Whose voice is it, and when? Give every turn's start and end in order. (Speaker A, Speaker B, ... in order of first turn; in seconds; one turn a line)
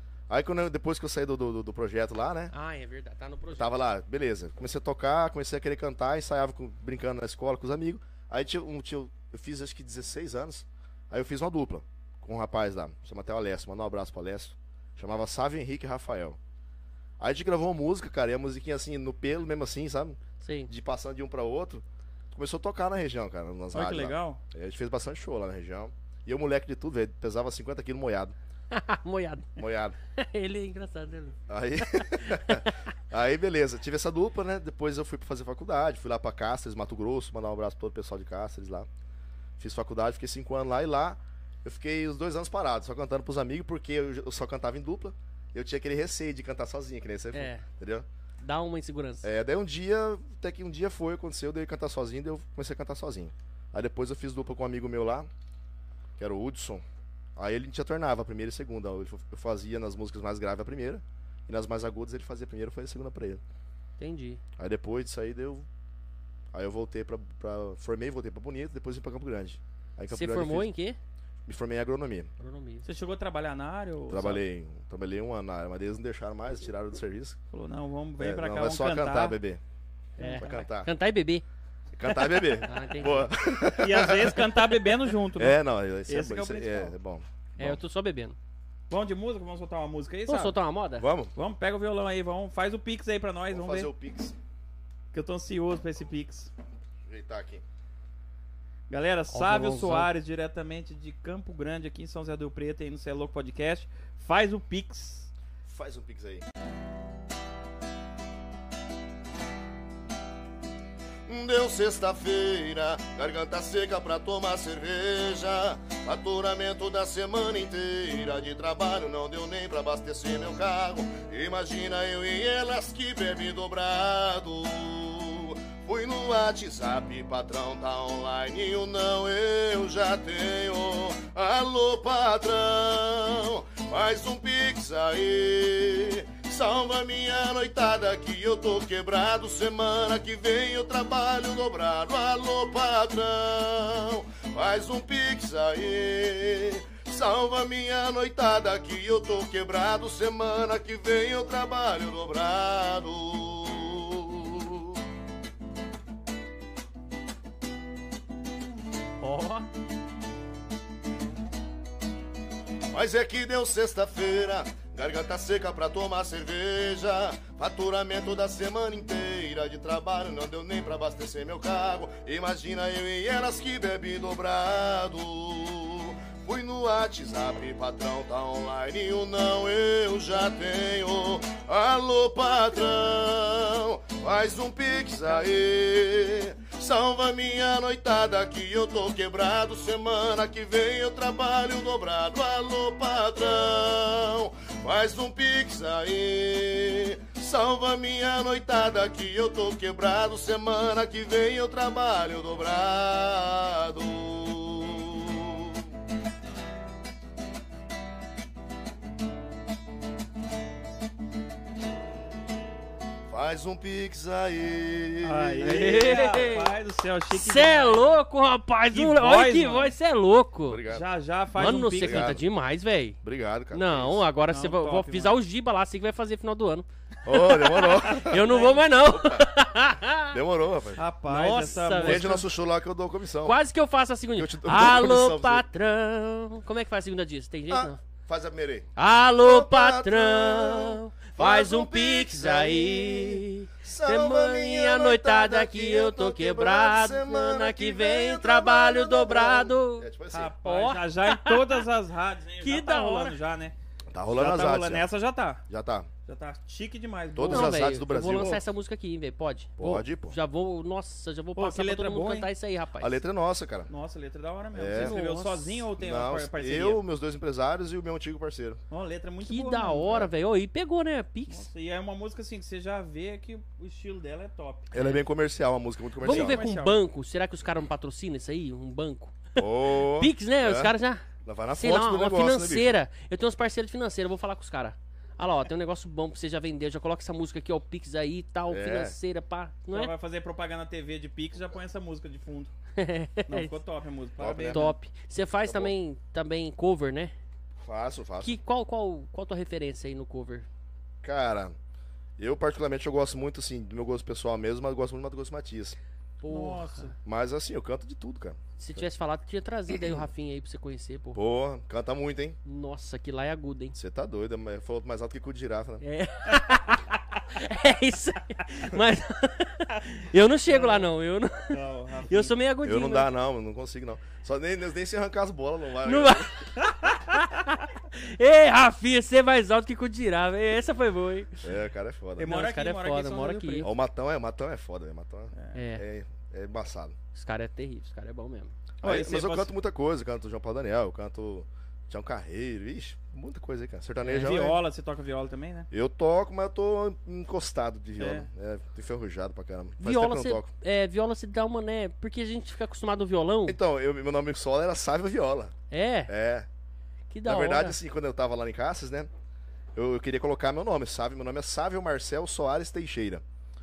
Speaker A: 0.3-2.5
Speaker B: 2.5-3.7
Speaker A: 3.5-16.4
Speaker A: 17.2-28.3
Speaker B: 20.4-20.7
Speaker C: 23.7-24.4
Speaker B: 28.7-29.6
Speaker A: 29.6-29.9
Speaker B: 30.1-32.8
Speaker A: 31.5-38.9
Speaker A: 39.6-48.0
Speaker B: 47.3-47.6
Speaker B: 48.4-49.3
Speaker A: 49.2-55.3
Speaker A: 56.2-56.8
Speaker A: 57.4-63.4
Speaker B: 64.0-64.4
Speaker A: 64.6-65.7
Speaker A: 66.5-70.7
Speaker B: 70.1-71.0
Speaker A: 71.5-72.3
Speaker B: 72.4-72.8
Speaker C: 72.8-74.4
Speaker A: 74.1-77.4
Speaker C: 77.5-79.4
Speaker A: 78.2-79.6
Speaker C: 80.2-80.6
Speaker B: 80.2-81.4
Speaker A: 80.3-80.9
Speaker A: 81.9-84.7
Speaker B: 82.1-83.3
Speaker C: 83.7-86.9
Speaker A: 85.3-87.8
Speaker B: 87.6-88.3
Speaker C: 88.9-90.6
Speaker B: 90.3-91.0
Speaker A: 91.0-91.3
Speaker C: 91.3-93.9
Speaker A: 93.5-94.3
Speaker C: 95.1-96.5
Speaker A: 97.1-97.6
Speaker C: 98.9-105.3
Speaker B: 99.3-100.1
Speaker A: 105.6-106.4
Speaker A: 111.3-155.0
Speaker B: 159.2-159.7
Speaker A: 162.9-205.8
Speaker A: 213.3-216.4
Speaker C: 215.2-218.2
Speaker B: 215.6-216.7
Speaker B: 217.3-220.8
Speaker C: 218.9-219.9
Speaker A: 220.7-222.4
Speaker C: 220.9-222.4
Speaker B: 221.6-223.2
Speaker A: 223.2-224.2
Speaker B: 223.7-230.4
Speaker C: 224.5-225.4
Speaker A: 227.2-229.5
Speaker C: 228.3-228.8
Speaker A: 230.3-231.0
Speaker C: 231.0-232.4
Speaker B: 231.3-232.4
Speaker A: 232.0-233.6
Speaker B: 233.4-238.0
Speaker A: 234.3-235.7
Speaker A: 237.7-250.6
Speaker B: 238.9-250.1
Speaker C: 250.3-253.7
Speaker B: 250.6-251.8
Speaker B: 252.6-253.3
Speaker A: 254.1-255.1
Speaker C: 254.3-255.6
Speaker A: 255.7-256.1
Speaker C: 256.3-257.8
Speaker A: 257.4-258.6
Speaker B: 257.5-263.2
Speaker A: 259.8-260.4
Speaker C: 261.6-262.5
Speaker A: 263.0-263.9
Speaker C: 263.9-267.0
Speaker A: 264.7-265.2
Speaker B: 264.9-265.9
Speaker A: 266.0-268.8
Speaker C: 268.9-270.2
Speaker B: 269.4-271.7
Speaker C: 271.5-274.9
Speaker A: 274.9-276.6
Speaker C: 276.2-277.0
Speaker B: 276.2-290.1
Speaker A: 279.6-280.9
Speaker A: 281.4-283.0
Speaker A: 288.7-289.1
Speaker C: 289.9-292.7
Speaker B: 293.0-293.7
Speaker C: 293.5-294.9
Speaker A: 294.4-294.9
Speaker B: 294.6-297.3
Speaker A: 295.6-295.9
Speaker A: 297.8-298.6
Speaker B: 298.4-300.7
Speaker A: 301.2-301.8
Speaker A: 302.4-306.0
Speaker B: 306.4-307.1
Speaker C: 306.5-307.1
Speaker A: 307.2-309.0
Speaker B: 308.8-311.4
Speaker A: 311.3-312.6
Speaker B: 312.6-313.9
Speaker A: 313.9-316.0
Speaker B: 316.0-323.3
Speaker C: 320.7-321.1
Speaker C: 321.7-322.5
Speaker A: 322.8-326.5
Speaker B: 326.0-331.7
Speaker A: 331.6-332.5
Speaker C: 332.4-333.9
Speaker B: 332.4-333.9
Speaker A: 333.8-337.1
Speaker C: 335.5-335.8
Speaker B: 335.7-336.0
Speaker B: 337.3-338.7
Speaker C: 339.0-339.7
Speaker A: 339.0-344.8
Speaker C: 344.2-345.9
Speaker A: 345.9-350.7
Speaker C: 348.2-348.5
Speaker B: 350.0-353.8
Speaker A: 353.7-355.7
Speaker B: 355.9-356.3
Speaker A: 356.3-356.7
Speaker B: 357.3-358.0
Speaker A: 357.4-359.3
Speaker A: 359.9-363.4